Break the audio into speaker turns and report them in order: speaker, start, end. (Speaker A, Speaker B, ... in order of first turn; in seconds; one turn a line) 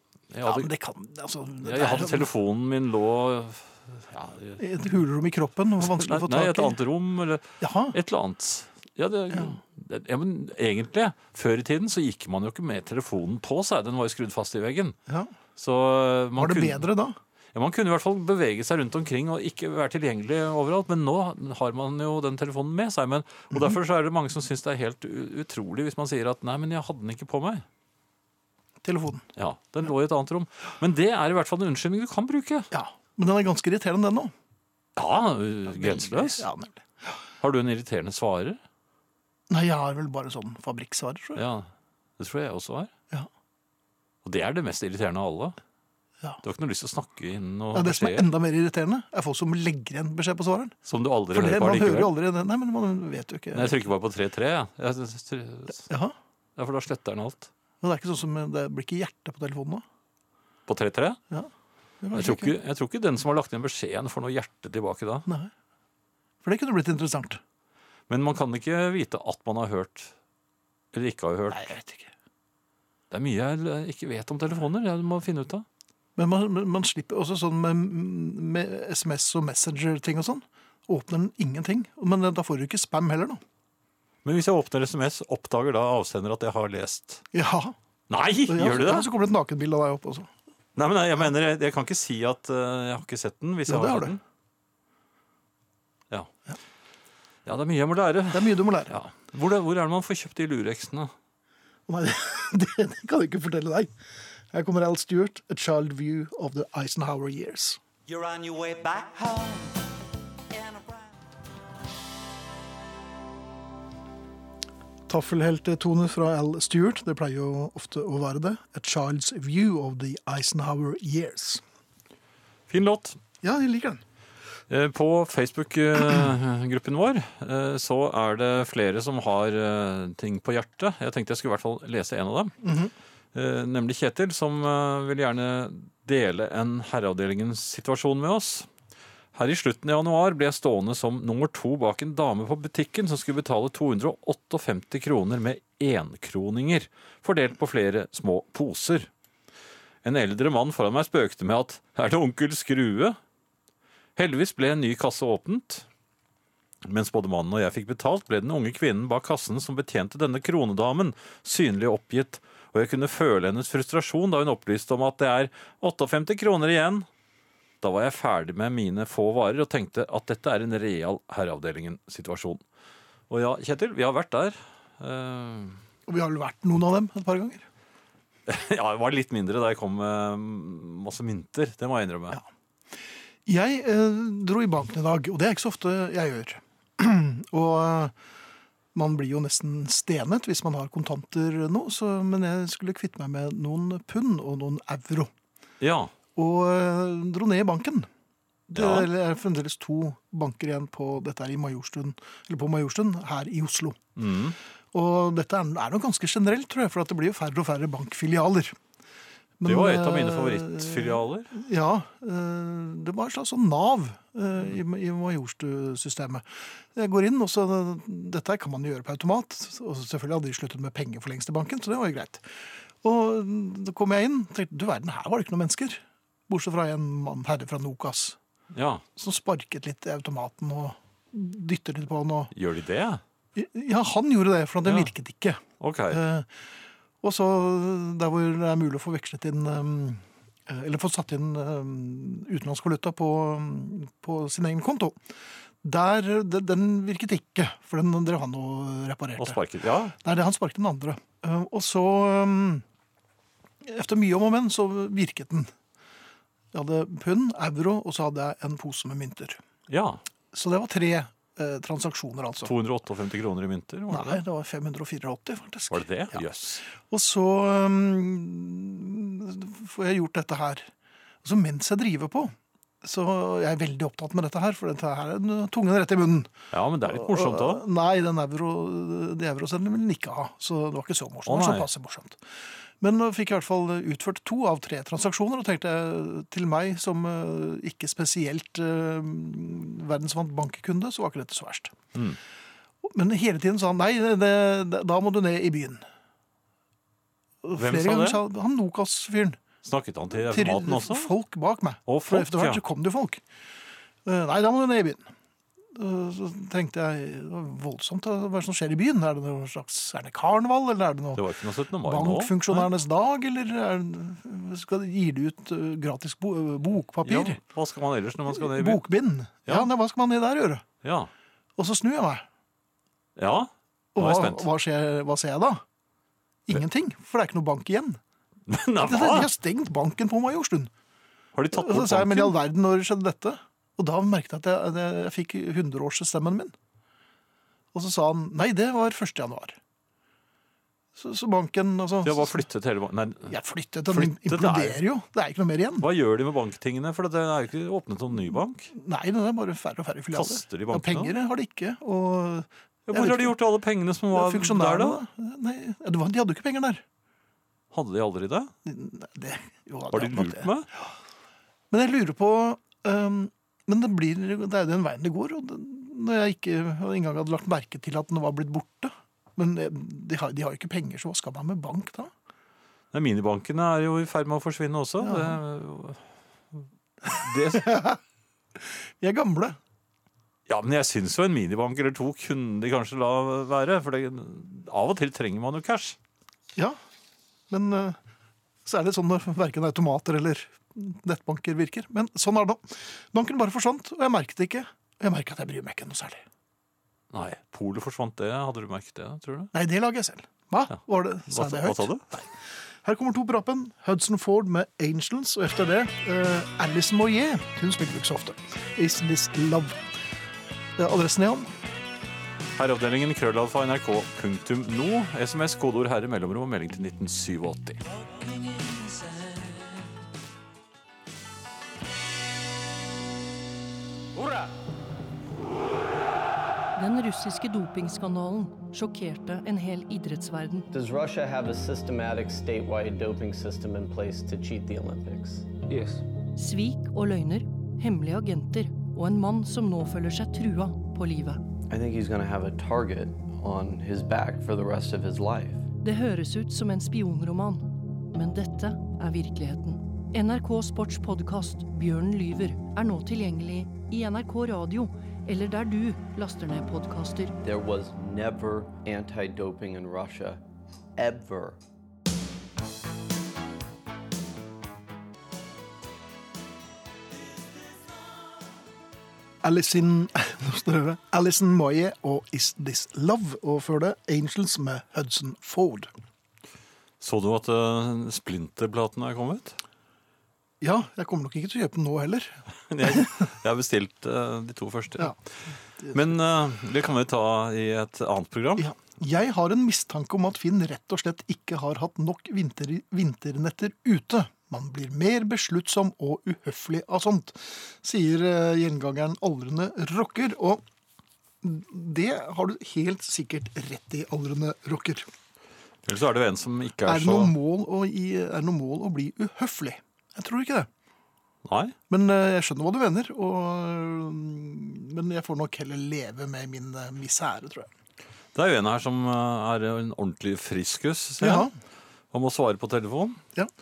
Speaker A: 0.3-0.7
Speaker B: 0.4-2.3
Speaker A: 1.6-4.6
Speaker B: 4.6-6.8
Speaker A: 5.8-14.9
Speaker B: 7.6-8.0
Speaker B: 9.3-9.6
Speaker B: 15.1-15.3
Speaker A: 15.6-16.9
Speaker B: 16.4-17.2
Speaker A: 17.5-27.6
Speaker B: 23.5-23.8
Speaker B: 28.8-29.2
Speaker A: 29.4-32.7
Speaker B: 32.7-34.3
Speaker A: 35.0-36.4
Speaker B: 35.7-36.9
Speaker A: 37.4-38.6
Speaker B: 39.5-41.4
Speaker A: 41.4-41.7
Speaker A: 42.2-42.9
Speaker A: 44.2-45.5
Speaker A: 46.4-48.3
Speaker B: 47.7-50.8
Speaker A: 50.9-52.1
Speaker B: 51.3-53.8
Speaker A: 53.5-55.8
Speaker B: 55.9-56.1
Speaker A: 56.6-57.5
Speaker B: 57.8-59.8
Speaker A: 60.7-61.2
Speaker B: 62.0-62.5
Speaker A: 62.1-65.3
Speaker B: 65.3-65.5
Speaker B: 66.4-67.4
Speaker A: 68.1-70.1
Speaker A: 70.9-71.7
Speaker B: 71.5-72.1
Speaker A: 73.1-75.6
Speaker B: 76.2-83.4
Speaker A: 84.2-87.2
Speaker B: 87.3-87.8
Speaker A: 88.1-89.1
Speaker B: 88.5-90.3
Speaker A: 90.8-94.2
Speaker B: 93.7-94.2
Speaker A: 97.5-101.1
Speaker B: 98.3-99.0
Speaker B: 101.9-103.9
Speaker B: 104.5-107.8
Speaker C: 108.1-109.8
Speaker C: 110.5-111.1
Speaker B: 115.1-121.6
Speaker A: 122.7-123.2
Speaker B: 123.4-124.0
Speaker A: 124.7-132.5
Speaker B: 132.6-132.9
Speaker A: 133.3-138.7
Speaker A: 139.3-149.1
Speaker A: 150.0-153.2
Speaker A: 154.2-155.8
Speaker A: 156.8-167.1
Speaker A: 167.8-172.6
Speaker A: 173.3-175.8
Speaker B: 176.1-177.7
Speaker A: 178.5-182.4
Speaker B: 183.4-188.1
Speaker B: 188.9-195.3
Speaker A: 195.8-196.1
Speaker B: 196.3-198.1
Speaker B: 198.7-204.0
Speaker A: 198.7-199.1
Speaker A: 204.2-204.6
Speaker B: 204.9-208.8
Speaker B: 209.6-228.4
Speaker A: 209.7-211.5
Speaker A: 228.7-229.0
Speaker B: 229.2-232.5
Speaker A: 232.5-233.2
Speaker B: 233.5-236.5
Speaker A: 234.8-235.1
Speaker A: 235.8-236.2
Speaker B: 237.2-245.2
Speaker B: 245.8-249.6
Speaker A: 249.4-250.1
Speaker B: 250.2-252.8
Speaker B: 253.8-255.7
Speaker B: 256.7-259.6
Speaker A: 259.9-260.2
Speaker B: 260.5-262.7
Speaker A: 262.6-264.4
Speaker B: 264.1-270.9
Speaker A: 265.9-266.8
Speaker B: 271.4-276.5
Speaker A: 276.7-277.8
Speaker B: 277.0-291.9
Speaker A: 281.5-281.9
Speaker B: 293.0-296.0
Speaker B: 297.6-299.6
Speaker A: 297.7-298.4
Speaker A: 299.8-301.3
Speaker B: 300.3-303.4
Speaker A: 302.1-302.8
Speaker B: 304.2-305.3
Speaker B: 305.9-311.4
Speaker A: 311.3-312.9
Speaker B: 312.0-317.6
Speaker A: 317.2-319.0
Speaker B: 318.5-320.8
Speaker A: 321.0-321.3
Speaker B: 321.8-322.4
Speaker A: 323.4-324.7
Speaker B: 324.1-325.8
Speaker B: 326.7-328.2
Speaker A: 328.7-329.5
Speaker B: 329.0-330.9
Speaker A: 331.5-332.6
Speaker B: 331.7-336.7
Speaker B: 337.9-339.8
Speaker B: 341.1-342.7
Speaker A: 342.2-343.6
Speaker B: 343.5-346.1
Speaker A: 344.1-345.0
Speaker A: 346.0-348.9
Speaker B: 348.9-353.6
Speaker A: 350.3-351.3
Speaker A: 353.1-355.2
Speaker B: 354.3-357.0
Speaker A: 357.9-358.7
Speaker B: 358.8-361.1
Speaker A: 360.1-360.9
Speaker B: 361.9-372.3
Speaker A: 373.1-377.9
Speaker B: 375.2-375.6
Speaker B: 377.3-378.2
Speaker B: 378.8-379.8
Speaker A: 380.7-386.2
Speaker B: 387.7-388.2
Speaker B: 388.8-396.4
Speaker A: 397.3-399.7
Speaker B: 399.7-410.0
Speaker A: 401.5-402.2
Speaker B: 411.0-411.7
Speaker A: 412.8-418.0
Speaker D: 426.9-430.9
Speaker E: 430.9-436.2
Speaker D: 436.6-441.6
Speaker E: 441.9-445.8
Speaker D: 446.0-457.6
Speaker E: 457.6-460.6
Speaker E: 461.2-461.8
Speaker B: 469.6-476.1
Speaker A: 477.2-479.8
Speaker B: 480.8-483.3
Speaker A: 482.9-485.4
Speaker B: 486.0-486.4
Speaker A: 486.1-488.9
Speaker B: 488.8-500.8
Speaker B: 501.6-505.3
Speaker A: 506.1-507.5
Speaker B: 507.0-510.9
Speaker A: 511.6-511.9
Speaker B: 512.1-517.9
Speaker A: 518.5-521.7
Speaker B: 521.4-521.7
Speaker A: 522.3-523.4